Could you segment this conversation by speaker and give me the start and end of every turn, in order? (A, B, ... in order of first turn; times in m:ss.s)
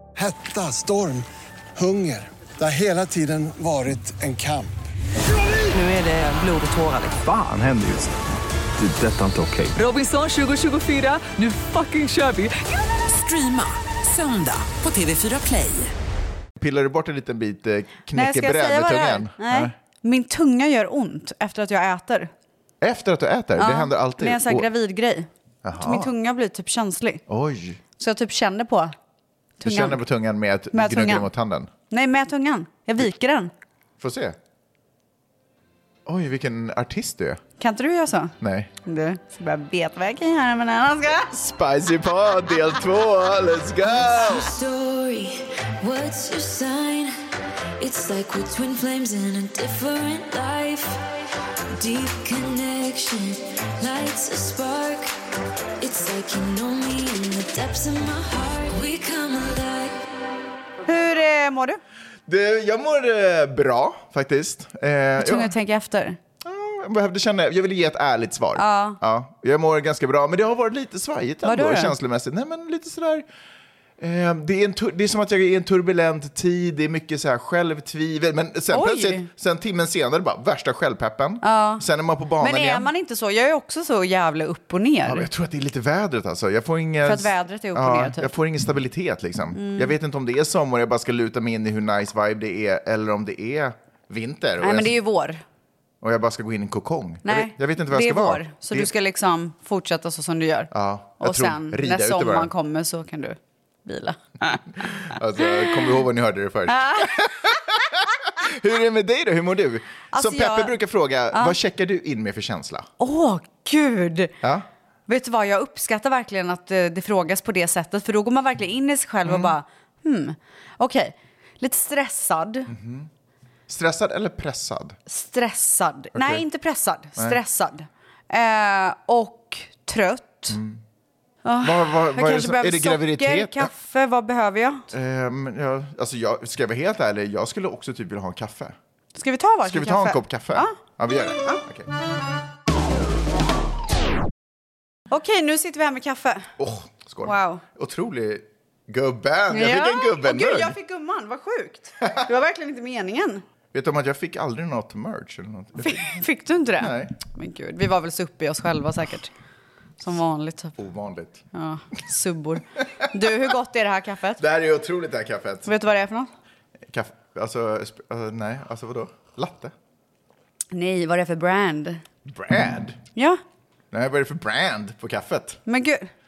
0:00.2-0:01.2 A
0:01.8-0:04.8 A
0:05.7-0:07.2 B
0:07.2-0:08.2 C
0:08.8-0:09.8 C
0:09.8-0:15.9 B
0:16.6-0:19.7 D
0:18.1-0:22.3 E
0:22.8-0:24.7 D
0:23.6-0:27.2 E
0:25.6-0:26.1 D
0:27.3-0:27.8 D
0:28.0-0:28.9 E
0:29.6-0:30.0 E
0:29.6-0:31.7 D
0:30.7-0:31.3 E
0:31.9-0:33.5 E
0:34.0-0:34.4 D
0:36.0-0:37.4 D
0:37.6-0:38.3 E
0:38.4-0:38.7 D
0:38.8-0:41.3 E
0:41.3-0:44.5 D
0:43.9-0:47.1 F
0:47.8-0:51.0 F
0:51.7-0:55.1 F
0:55.8-1:00.1 F
1:00.8-1:01.8 E
1:02.3-1:05.5 D
1:05.2-1:06.2 E
1:06.4-1:13.2 D
1:08.6-1:09.0 E
1:11.4-1:11.9 E
1:14.0-1:22.9 D
1:18.7-1:19.3 E
1:21.4-1:21.8 E
1:22.4-1:25.3 E
1:25.0-1:35.0 D
1:27.0-1:28.3 E
1:29.5-1:29.9 E
1:34.6-1:35.4 E
1:36.0-1:38.9 D
1:37.2-1:44.8 E
1:40.7-1:42.5 D
1:44.8-1:52.9 D
1:45.4-1:45.8 E
1:46.7-1:47.3 E
1:50.1-1:50.7 E
1:53.0-1:54.3 E
1:55.1-2:02.7 E
1:59.2-1:59.5 D
2:02.7-2:03.1 D
2:03.7-2:05.0 D
2:05.1-2:10.6 E
2:06.1-2:06.4 D
2:10.5-2:10.8 D
2:11.4-2:14.9 E
2:11.6-2:13.7 D
2:14.9-2:18.8 D
2:19.1-2:20.8 E
2:19.6-2:21.9 D
2:25.1-2:26.5 E
2:26.6-2:30.7 D
2:27.2-2:27.6 E
2:29.5-2:33.4 E
2:33.7-2:36.2 D
2:35.8-2:39.3 E
2:36.8-2:37.1 D
2:40.0-2:40.7 E
2:40.8-2:41.4 D
2:41.5-2:44.4 E
2:44.4-2:45.7 D
2:45.6-2:46.3 E
2:46.9-2:49.7 D
2:50.7-2:52.0 E
2:52.2-2:53.0 D
2:53.9-2:55.6 D
2:55.6-2:56.1 E